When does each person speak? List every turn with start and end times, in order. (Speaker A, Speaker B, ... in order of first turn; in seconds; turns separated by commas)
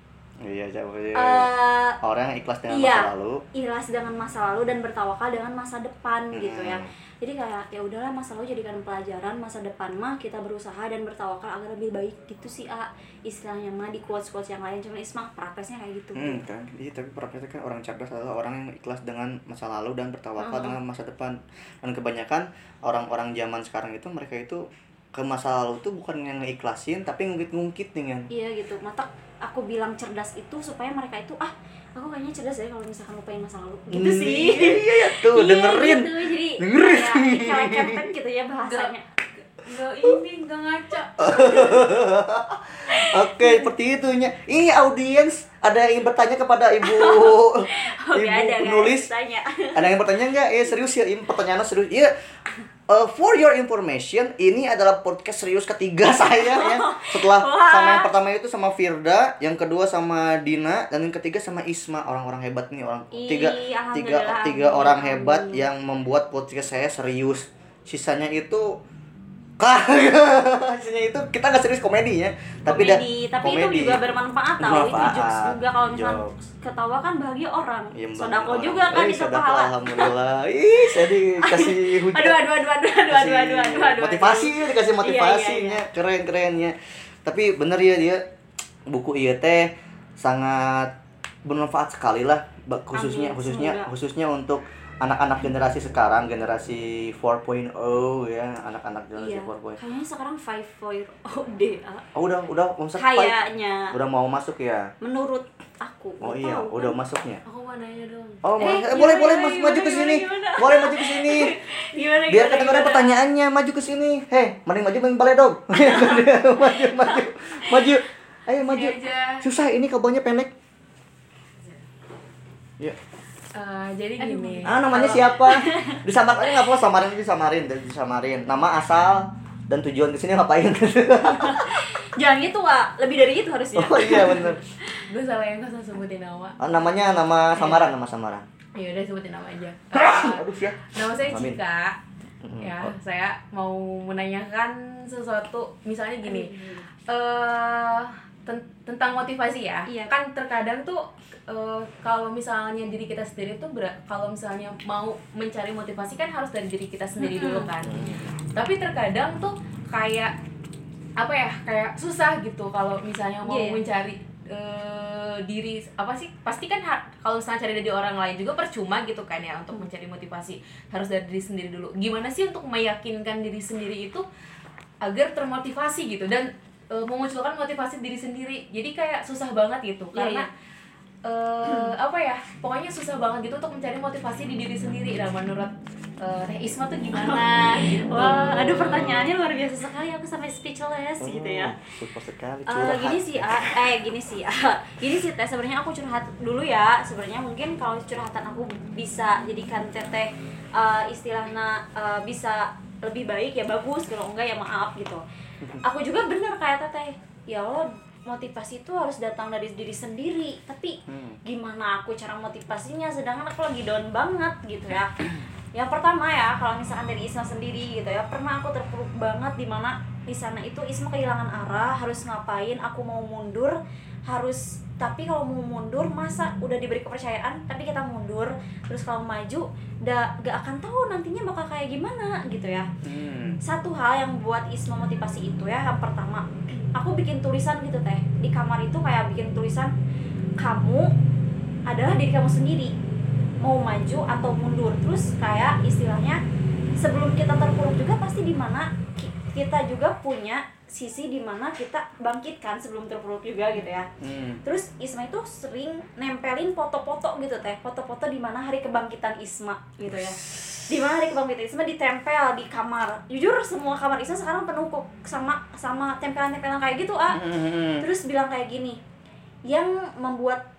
Speaker A: 0.4-1.5, Speaker B: 1.1-2.0, Speaker A: 2.0-3.4, Speaker B: 2.7-16.4, Speaker A: 6.3-6.9, Speaker A: 16.2-28.3, Speaker B: 20.4-20.8, Speaker B: 28.3-39.1, Speaker A: 33.9-38.0, Speaker C: 38.6-38.9, Speaker C: 39.6-41.7, Speaker A: 41.2-49.1, Speaker B: 41.2-41.9, Speaker B: 42.9-43.7, Speaker B: 46.8-49.9, Speaker A: 49.8-52.1, Speaker A: 52.9-68.8, Speaker B: 56.4-58.1, Speaker B: 63.1-65.7, Speaker A: 69.6-74.0, Speaker B: 72.7-80.1, Speaker A: 74.6-76.3, Speaker A: 77.9-82.5, Speaker B: 80.9-85.8, Speaker A: 83.1-88.2, Speaker A: 88.9-90.9, Speaker A: 91.5-99.8, Speaker B: 92.9-93.9, Speaker B: 99.2-102.0, Speaker A: 102.1-103.4, Speaker B: 103.0-103.9, Speaker A: 103.9-104.9, Speaker B: 105.0-107.0, Speaker A: 106.2-107.4, Speaker C: 107.5-109.8, Speaker A: 108.4-111.5, Speaker B: 108.6-113.1, Speaker A: 112.3-120.5, Speaker B: 115.8-117.9, Speaker C: 118.6-119.5, Speaker C: 123.5-125.2, Speaker B: 124.2-126.0, Speaker A: 124.7-131.8, Speaker B: 131.2-135.1, Speaker A: 133.8-134.6, Speaker C: 135.1-137.9, Speaker A: 136.6-138.5, Speaker C: 138.8-142.0, Speaker A: 139.9-141.6, Speaker A: 142.4-142.9, Speaker C: 142.6-158.0, Speaker B: 146.2-146.8, Speaker B: 149.9-150.1, Speaker B: 157.2-157.7, Speaker A: 157.8-158.4, Speaker C: 158.5-160.3, Speaker C: 161.2-174.2, Speaker B: 163.4-163.8, Speaker C: 175.0-180.5, Speaker B: 180.1-180.5, Speaker C: 181.2-188.8, Speaker B: 187.1-191.8, Speaker A: 188.7-189.3, Speaker A: 191.2-193.7, Speaker B: 192.7-205.2, Speaker B: 205.8-215.1, Speaker A: 211.1-211.4, Speaker B: 215.8-232.9, Speaker A: 233.1-233.6, Speaker B: 233.6-239.9, Speaker B: 240.6-241.1, Speaker B: 241.9-242.9, Speaker B: 243.6-246.4, Speaker B: 247.0-254.1, Speaker A: 254.2-254.6, Speaker B: 254.6-269.0, Speaker A: 260.1-260.9, Speaker A: 267.3-268.1, Speaker B: 269.7-270.6